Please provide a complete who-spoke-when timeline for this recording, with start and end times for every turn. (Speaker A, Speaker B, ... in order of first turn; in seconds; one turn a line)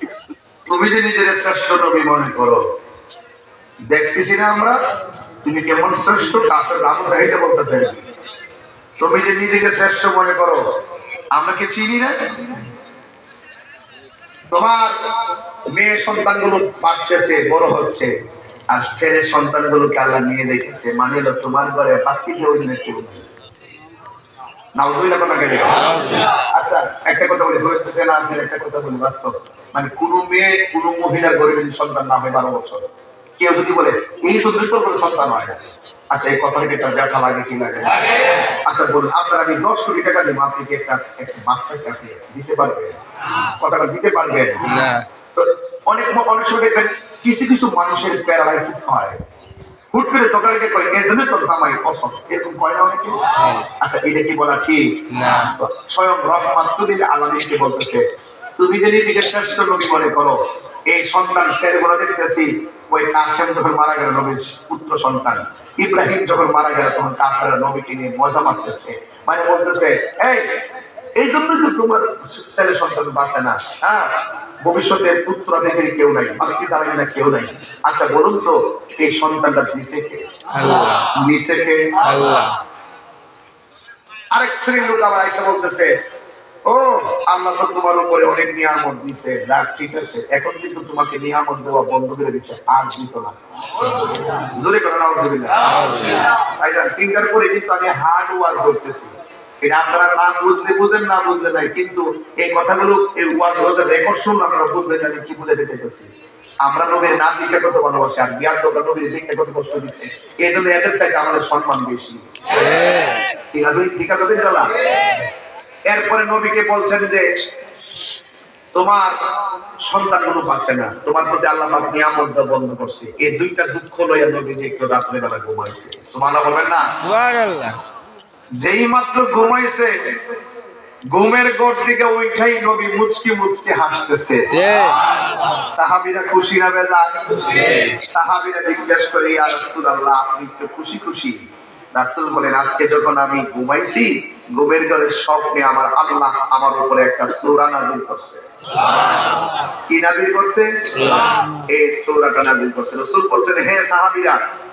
Speaker A: 0.7-2.7
Speaker A: 3.9-4.8
Speaker A: 5.4-8.1
Speaker A: 9.0-10.6
Speaker A: 11.3-12.4
Speaker A: 14.5-15.0
Speaker A: 15.7-18.1
Speaker A: 18.7-23.3
Speaker A: 24.8-32.9
Speaker A: 33.4-49.2
Speaker B: 44.6-45.0
Speaker A: 49.9-58.0
Speaker B: 53.4-53.7
Speaker B: 55.1-55.5
Speaker A: 58.6-70.6
Speaker A: 71.2-80.3
Speaker B: 80.5-81.1
Speaker A: 81.1-82.0
Speaker B: 82.0-82.6
Speaker A: 84.3-85.9
Speaker A: 86.7-93.4
Speaker A: 94.2-106.1
Speaker A: 106.6-112.7
Speaker A: 113.5-114.8
Speaker A: 115.9-117.3
Speaker A: 118.7-119.2
Speaker A: 119.8-127.0
Speaker B: 127.0-127.8
Speaker A: 128.6-130.1
Speaker A: 131.1-134.5
Speaker B: 134.5-135.0
Speaker A: 135.6-141.4
Speaker B: 137.5-137.9
Speaker A: 141.9-148.9
Speaker A: 149.9-154.4
Speaker B: 150.9-151.4